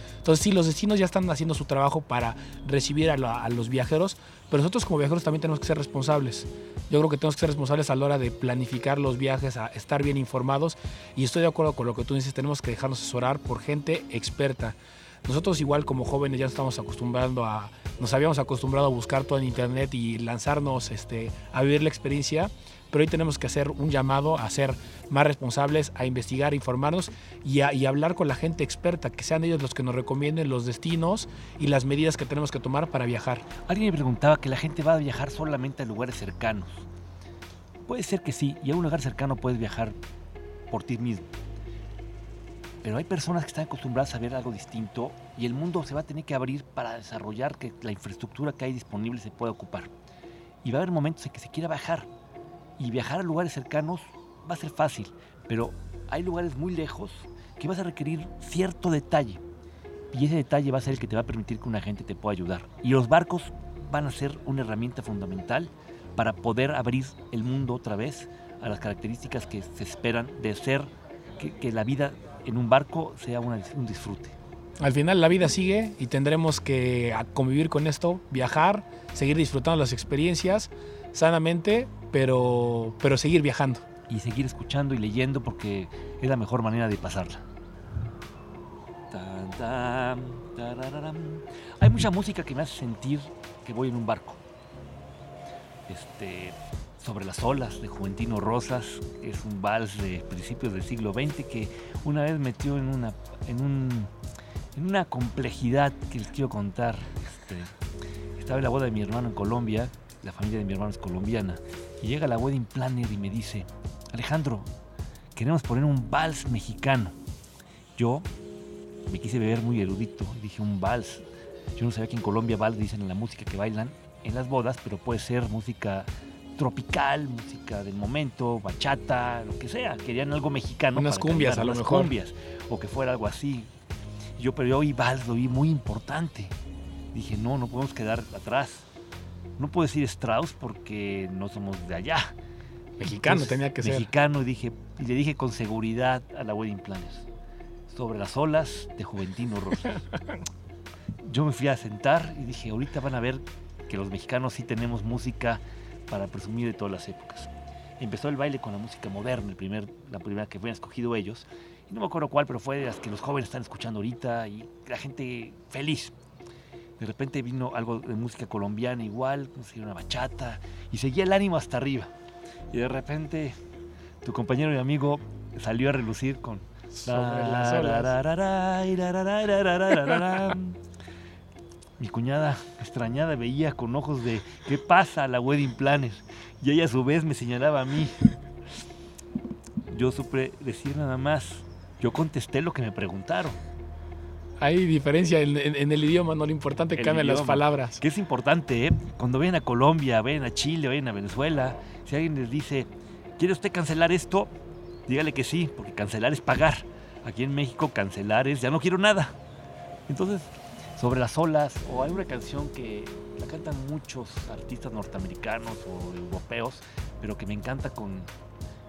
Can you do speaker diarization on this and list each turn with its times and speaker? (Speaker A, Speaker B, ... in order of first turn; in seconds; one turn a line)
Speaker A: 0.2-33.5
Speaker B: 33.7-36.9
Speaker B: 37.9-40.0
Speaker B: 40.7-41.3
Speaker B: 42.8-49.9
Speaker B: 50.6-52.1
Speaker B: 52.8-59.4
Speaker B: 60.1-74.4
Speaker A: 74.8-83.8
Speaker B: 84.1-87.5
Speaker B: 89.1-94.4
Speaker B: 95.9-104.1
Speaker B: 104.8-107.7
Speaker B: 108.4-114.7
Speaker B: 115.3-117.2
Speaker B: 118.0-118.3
Speaker B: 119.1-133.7
Speaker A: 130.9-132.1
Speaker B: 134.4-136.6
Speaker B: 137.1-138.9
Speaker B: 139.6-142.3
Speaker A: 143.0-144.1
Speaker B: 143.2-147.3
Speaker B: 147.9-150.0
Speaker B: 151.2-166.1
Speaker B: 167.0-172.1
Speaker B: 172.7-173.6
Speaker B: 174.2-180.8
Speaker A: 177.0-178.1
Speaker B: 182.0-188.2
Speaker B: 189.9-193.6
Speaker A: 194.6-198.0
Speaker B: 197.0-204.5
Speaker B: 205.1-209.4
Speaker B: 210.1-218.3